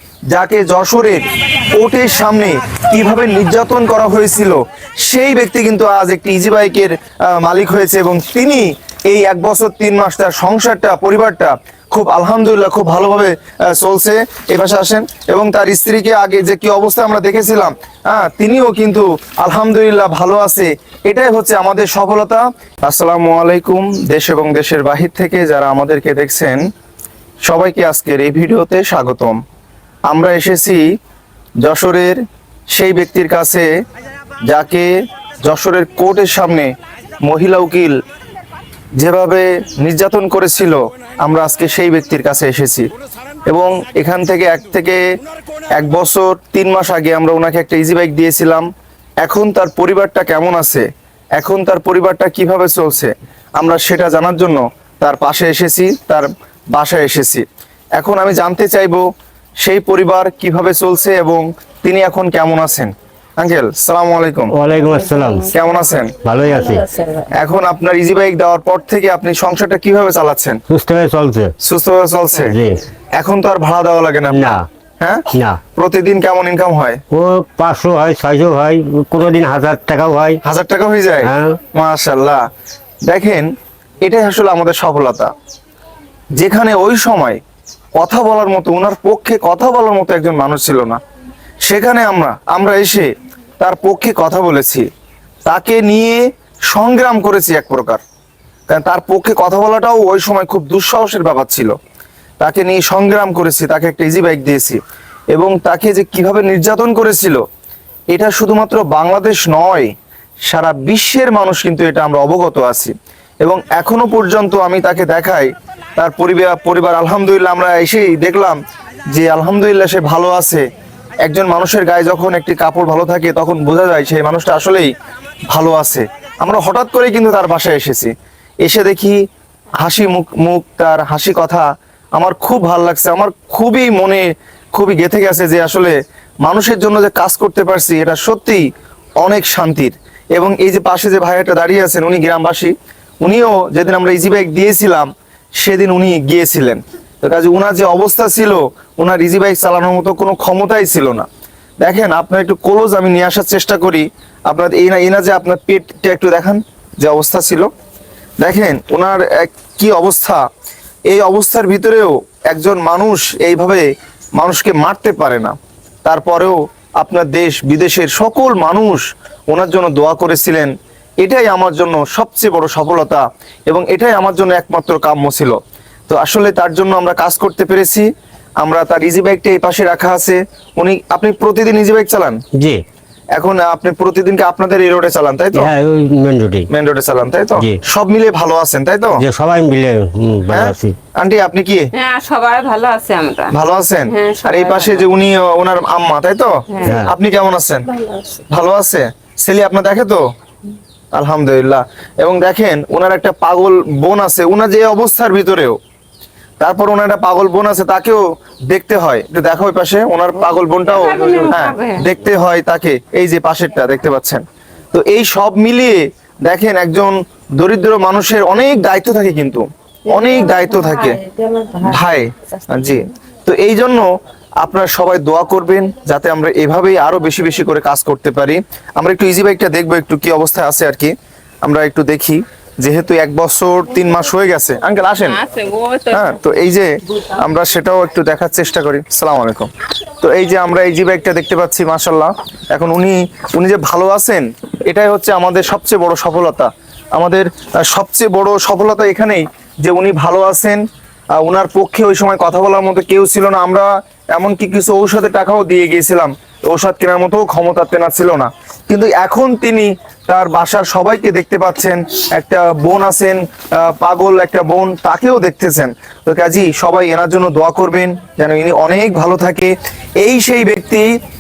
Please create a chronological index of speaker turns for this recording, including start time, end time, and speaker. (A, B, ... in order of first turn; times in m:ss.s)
0:00.3-0:26.6 A
0:27.5-0:29.4 A
0:30.1-0:30.8 A
0:31.6-0:32.2 A
0:32.7-0:33.7 A
0:34.4-0:34.9 A
0:35.4-0:36.7 A
0:37.2-0:38.0 A
0:39.0-0:42.9 A
0:43.5-0:45.0 A
0:45.7-0:48.7 A
0:49.2-0:50.9 A
0:51.4-0:57.5 A
0:58.0-0:59.0 A
0:59.6-1:04.6 A
1:04.5-1:05.5 B
1:05.5-1:06.2 A
1:06.2-1:07.0 B
1:07.3-1:10.6 A
1:10.7-1:11.5 B
1:11.6-1:12.6 A
1:12.4-1:12.8 B
1:13.2-1:17.0 A
1:14.3-1:14.6 B
1:15.3-1:15.6 B
1:17.1-1:20.4 B
1:20.4-1:22.4 A
1:21.2-1:21.6 B
1:23.1-1:23.5 A
1:24.0-1:25.3 A
1:26.4-1:27.4 A
1:28.0-1:31.0 A
1:31.6-1:34.9 A
1:35.5-1:38.0 A
1:38.7-1:41.7 A
1:42.4-1:44.8 A
1:45.3-1:47.4 A
1:48.1-1:49.9 A
1:50.5-1:58.6 A
1:59.1-2:00.7 A
2:01.2-2:04.9 A
2:05.5-2:08.1 A
2:08.6-2:09.2 A
2:09.8-2:18.7 A
2:19.2-2:31.3 A
2:31.8-2:37.7 A
2:38.4-2:40.4 A
2:41.1-2:58.1 A
2:58.6-3:02.4 A
3:02.6-3:02.8 B
3:03.4-3:05.7 A
3:05.5-3:06.7 B
3:06.7-3:09.2 A
3:09.2-3:11.0 B
3:10.5-3:11.9 A
3:11.9-3:13.5 C
3:13.5-3:17.9 A
3:14.1-3:15.1 C
3:16.7-3:17.0 C
3:16.8-3:17.2 B
3:18.0-3:18.4 C
3:18.5-3:20.2 A
3:21.1-3:25.8 A
3:26.6-3:41.2 A
3:30.8-3:32.1 C
3:40.1-3:42.0 C
3:41.8-3:44.1 A
3:44.6-3:51.1 A
3:51.6-3:55.4 A
3:55.2-3:56.4 C
3:56.1-4:10.8 A
4:11.4-4:31.1 A